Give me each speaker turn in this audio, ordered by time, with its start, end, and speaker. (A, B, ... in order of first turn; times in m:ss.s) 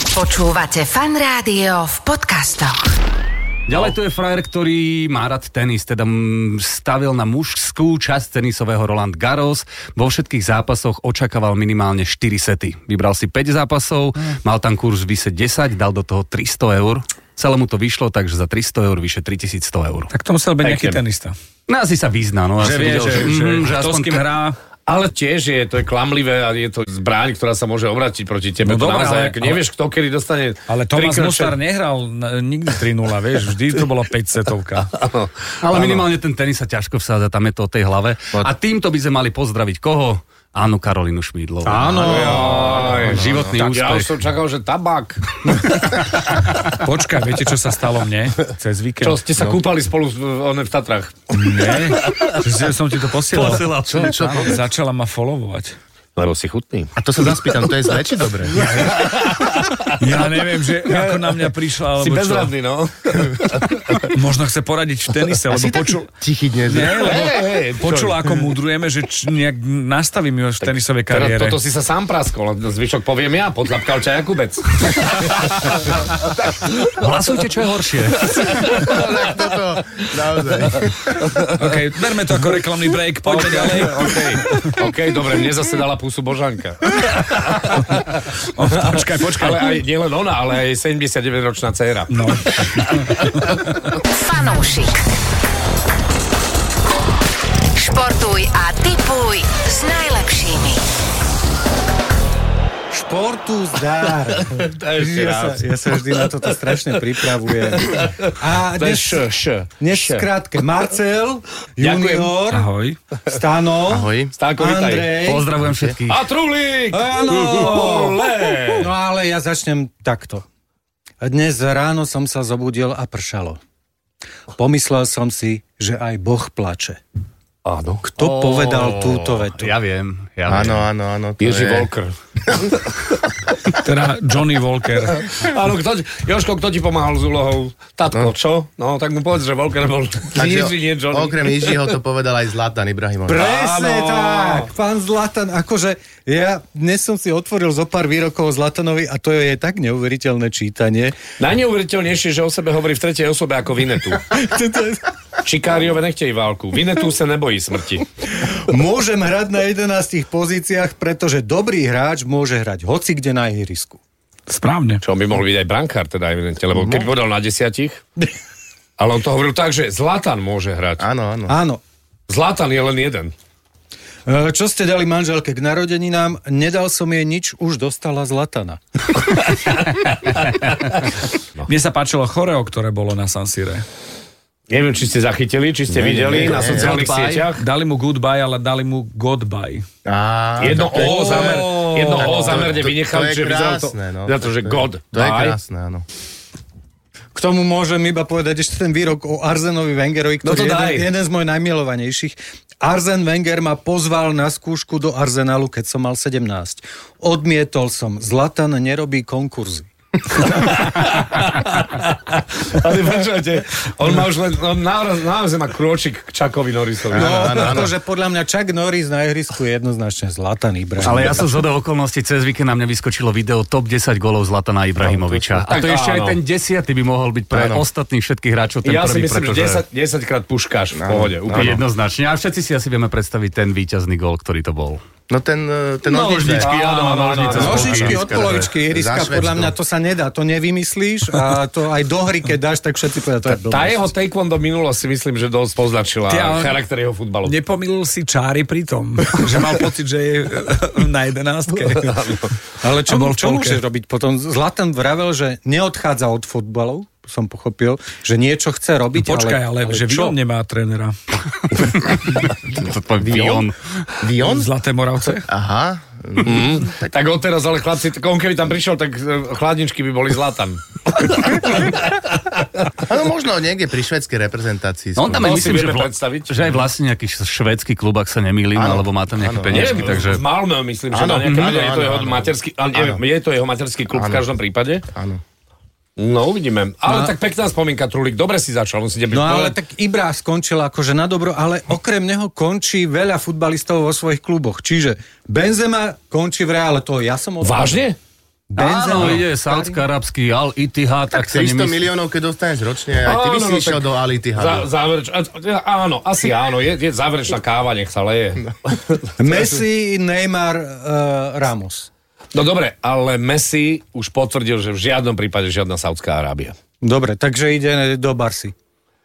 0:00.1-0:02.9 A
0:03.7-0:20.1 B
0:20.1-0:21.4 C
0:20.6-0:21.0 D
0:21.7-0:24.2 B
0:22.6-0:24.6 C
0:24.9-0:31.6 D
0:28.6-0:29.6 C
0:30.7-0:34.9 C
0:35.0-0:36.1 D
0:35.6-0:42.1 B
0:41.6-0:42.8 E
0:41.8-0:43.7 F
0:42.1-0:45.7 D
0:42.7-0:44.1 B
0:45.5-0:46.7 B
0:46.8-0:49.2 C
0:49.0-0:52.4 D
0:51.3-0:55.8 C
0:53.3-0:54.6 B
0:53.9-0:54.5 F
0:56.2-0:57.0 D
0:57.0-0:58.9 F
0:58.5-0:59.5 B
0:58.8-0:59.9 D
1:00.0-1:02.5 C
1:00.8-1:04.1 D
1:04.1-1:06.1 C
1:05.6-1:07.1 F
1:06.7-1:11.6 C
1:07.0-1:08.4 D
1:10.6-1:16.0 D
1:16.8-1:18.9 B
1:18.2-1:19.4 D
1:18.7-1:21.3 F
1:21.6-1:24.8 C
1:23.2-1:28.2 D
1:28.5-1:29.8 C
1:28.8-1:33.3 D
1:32.1-1:33.9 C
1:34.1-1:35.0 A
1:37.8-1:40.8 A
1:42.9-1:49.2 E
1:44.5-1:45.6 D
1:47.8-1:50.3 D
1:49.8-1:52.7 E
1:51.8-1:52.3 D
1:52.5-1:53.0 C
1:53.3-1:55.5 E
1:53.9-1:54.3 F
1:54.4-1:55.3 D
1:55.2-1:56.3 B
1:55.6-1:56.0 F
1:56.1-1:58.9 D
1:56.9-1:58.2 E
1:58.8-2:00.4 E
2:01.2-2:03.6 E
2:04.6-2:07.0 E
2:07.6-2:08.0 D
2:08.0-2:09.8 E
2:08.2-2:10.9 B
2:10.5-2:11.9 F
2:11.4-2:12.2 D
2:13.7-2:15.4 C
2:15.2-2:21.9 D
2:20.3-2:23.4 F
2:23.3-2:31.2 E
2:23.4-2:24.7 D
2:31.4-2:34.3 D
2:34.3-2:35.0 E
2:35.4-2:38.1 D
2:38.4-2:44.0 E
2:44.5-2:45.0 C
2:45.0-2:48.0 D
2:46.8-2:47.1 F
2:49.0-2:51.1 D
2:51.0-2:51.6 F
2:51.5-2:51.8 E
2:52.3-2:53.3 D
2:54.3-2:58.8 E
3:01.7-3:03.8 C
3:04.7-3:07.6 D
3:05.9-3:06.9 F
3:06.3-3:07.5 B
3:07.6-3:09.8 C
3:10.0-3:16.1 F
3:10.6-3:15.6 D
3:10.9-3:12.8 C
3:17.4-3:29.9 E
3:20.4-3:21.1 D
3:30.4-3:30.7 E
3:30.5-3:37.8 D
3:37.1-3:37.9 F
3:37.1-3:41.4 E
3:41.0-3:49.8 B
3:45.0-3:45.7 F
3:45.7-3:46.4 D
3:47.5-3:47.9 F
3:48.8-3:51.8 D
3:51.0-3:51.8 F
3:51.5-3:55.0 B
3:55.3-3:56.7 F
3:56.1-3:58.6 B
3:56.5-3:58.2 D
3:57.3-3:58.1 C
3:57.6-4:04.1 E
3:57.9-3:59.8 F
4:03.5-4:07.6 D
4:06.3-4:06.8 C
4:07.4-4:12.4 C
4:12.0-4:12.5 D
4:12.8-4:20.4 E
4:13.1-4:13.8 C
4:19.2-4:21.2 C
4:21.8-4:23.8 B
4:23.2-4:23.7 F
4:24.2-4:24.7 F
4:24.4-4:25.5 C
4:25.5-4:27.1 F
4:26.4-4:32.6 D
4:33.1-4:35.6 F
4:35.2-4:40.4 B
4:35.3-4:36.7 D
4:38.8-4:40.2 F
4:39.7-4:45.0 D
4:41.1-4:43.2 F
4:41.4-4:41.7 B
4:44.1-4:44.4 F
4:45.1-4:45.4 F
4:46.2-4:49.8 D
4:49.3-4:58.1 E
4:57.6-4:58.2 D
4:58.7-5:00.0 E
4:58.8-5:02.0 B
5:01.3-5:04.9 F
5:03.2-5:09.7 D
5:09.4-5:12.1 E
5:12.5-5:16.8 D
5:17.0-5:18.7 E